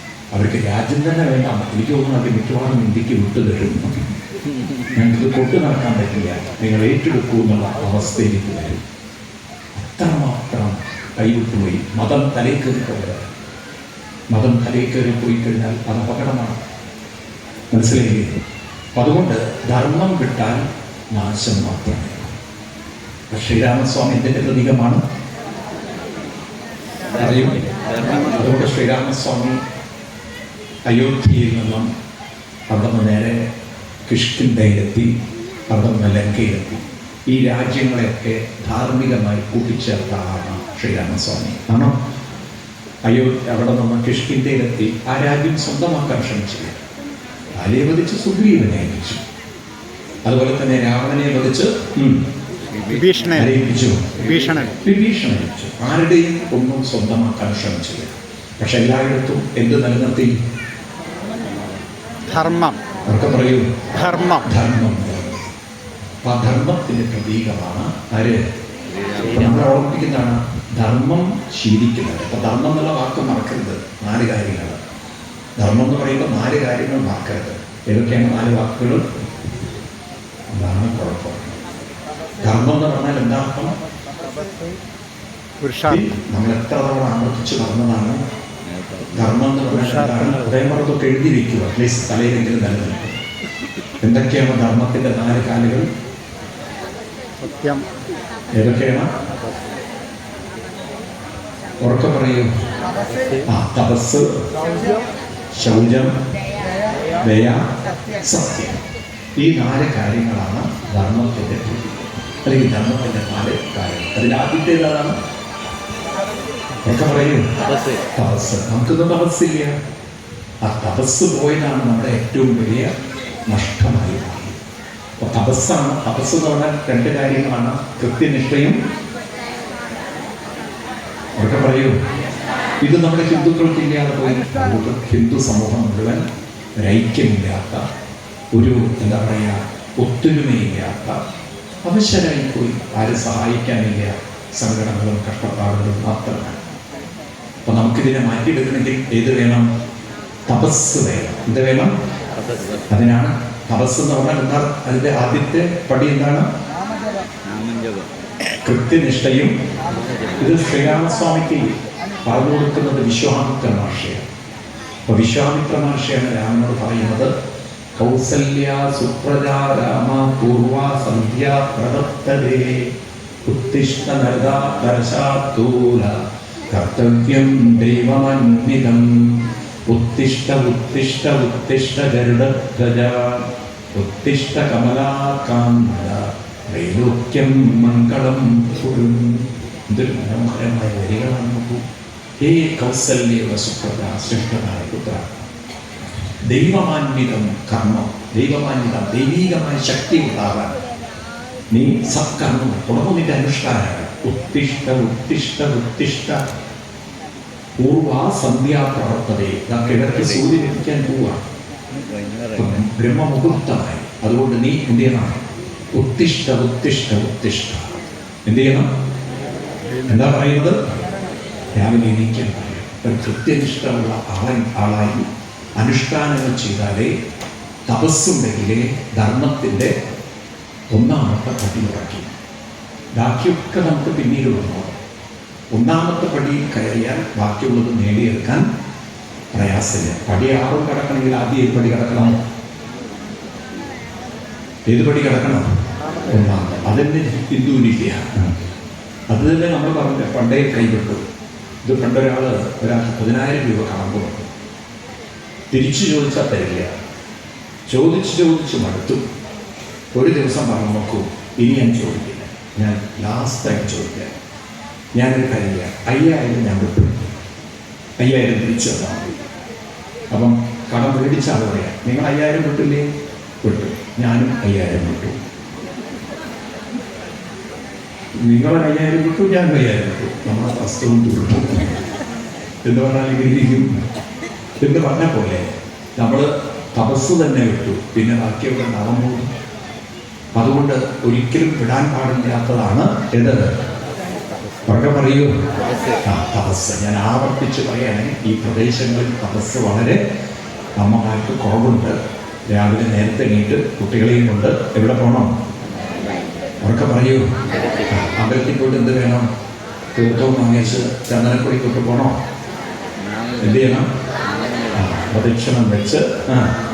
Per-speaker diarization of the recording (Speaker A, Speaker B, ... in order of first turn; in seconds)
Speaker A: 0.3-3.9, 4.9-8.8, 9.7-13.2, 14.3-16.6, 17.7-18.3, 18.9-22.3, 23.3-25.0, 27.1-29.6, 30.9-31.9, 32.7-33.4, 34.0-35.1, 35.7-42.0, 43.1-46.8, 47.5-49.2, 50.2-52.3, 53.3-54.3, 54.8-60.3, 63.1-65.4, 66.2-68.4, 69.2-74.8, 75.6-79.0, 80.5-81.5, 82.4-83.8, 85.8-88.2, 89.1-93.2, 94.0-95.9, 98.5-99.1, 101.8-102.5, 103.5-104.3, 105.5-106.1, 107.2-107.6, 108.2-108.8, 109.4-111.9, 112.4-115.2, 116.8-117.5, 118.1-119.7, 120.6-122.9, 123.5-124.6, 125.2-128.8, 131.4-131.9, 132.8-136.2, 136.8-137.8, 138.5-141.2, 141.8-146.6, 147.7-149.7, 150.5-151.9, 152.9-156.5, 158.6-159.5, 160.4-161.7, 162.2-164.2, 165.1-167.3, 167.9-172.9, 173.5-191.8, 192.4-195.4, 196.5-200.8, 201.7-206.4, 207.8-211.4, 212.5-218.9, 220.1-220.8, 221.7-225.2, 225.8-227.1, 227.9-229.9, 230.9-232.3, 233.2-234.9, 235.7-238.6, 239.5-242.4, 244.9-245.6, 246.2-248.5, 249.3-251.2, 251.8-254.5, 255.7-256.9, 257.9-259.2, 260.1-264.3, 265.1-267.3, 268.2-269.3, 270.3-273.0, 273.6-275.4, 278.4-282.0, 282.8-283.9, 284.8-289.5, 290.6-293.7, 294.9-295.5, 296.2-300.2, 301.0-302.2, 302.7-305.5, 306.8-307.5, 308.1-309.5, 310.1-312.3, 313.6-314.1, 314.9-316.7
Speaker B: 52.9-53.5, 54.2-54.7, 62.3-62.8, 64.0-64.4, 85.6-86.1, 89.7-90.4, 97.4-97.9